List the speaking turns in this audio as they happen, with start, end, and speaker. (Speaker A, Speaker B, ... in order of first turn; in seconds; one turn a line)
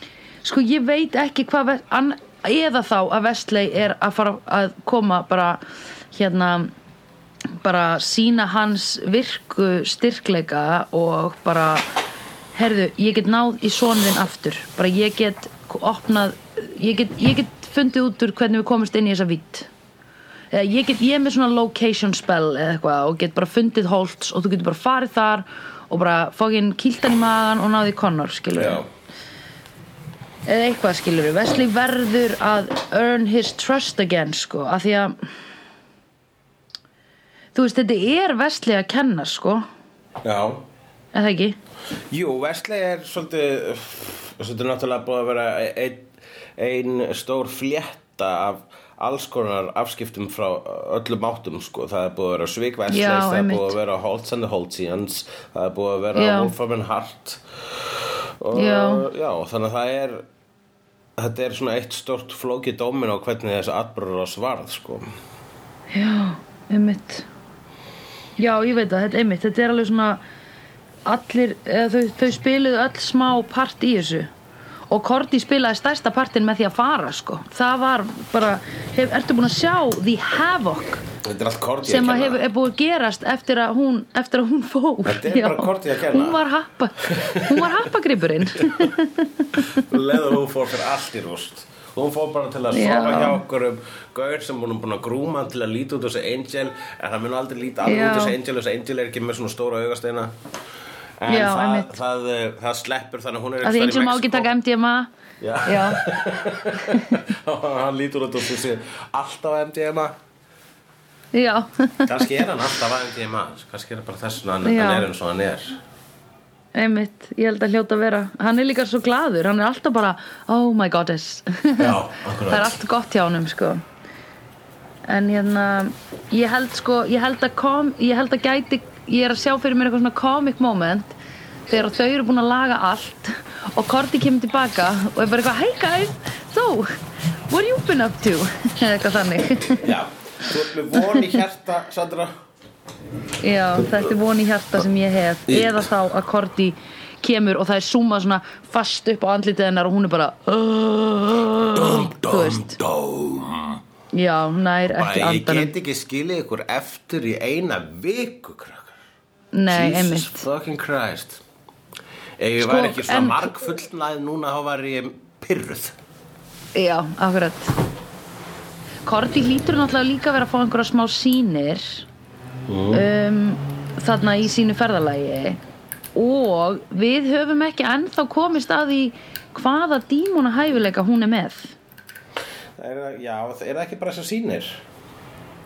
Speaker A: 0.4-6.7
Speaker A: 7.6-11.9
Speaker A: 12.5-19.7
Speaker A: 20.5-28.8
Speaker B: 28.5-28.9
Speaker A: 30.4-35.1
Speaker A: 37.5-39.6
Speaker B: 40.2-40.6
Speaker A: 41.1-41.6
Speaker B: 42.1-60.2
Speaker A: 52.9-53.7
Speaker A: 56.1-56.5
Speaker A: 58.5-59.1
Speaker B: 61.2-65.1
Speaker A: 65.9-67.3
Speaker A: 68.4-70.2
Speaker A: 71.0-74.3
Speaker A: 74.9-81.0
Speaker B: 81.2-82.4
Speaker A: 81.8-89.8
Speaker B: 85.0-86.4
Speaker B: 87.0-87.9
Speaker B: 88.6-88.9
Speaker B: 89.6-100.3
Speaker A: 92.7-93.4
Speaker A: 97.8-98.4
Speaker B: 101.2-104.5
Speaker A: 101.3-101.9
Speaker A: 103.6-105.1
Speaker B: 105.4-110.1
Speaker A: 105.6-106.0
Speaker A: 111.3-112.2
Speaker B: 112.0-115.8
Speaker A: 114.6-115.1
Speaker A: 116.7-123.8
Speaker B: 121.8-122.8
Speaker A: 125.0-131.1
Speaker A: 131.7-136.9
Speaker A: 137.5-139.9
Speaker B: 139.8-142.3
Speaker A: 140.9-141.4
Speaker A: 143.4-152.8
Speaker B: 145.5-145.9
Speaker B: 151.7-153.8
Speaker A: 154.1-155.7
Speaker B: 154.9-159.0
Speaker A: 159.5-160.5
Speaker B: 159.7-161.4
Speaker B: 162.4-165.9
Speaker A: 162.6-163.6
Speaker A: 166.7-167.7
Speaker A: 169.0-172.1
Speaker B: 172.7-173.1
Speaker A: 172.9-175.6
Speaker A: 176.1-181.8
Speaker B: 182.8-184.8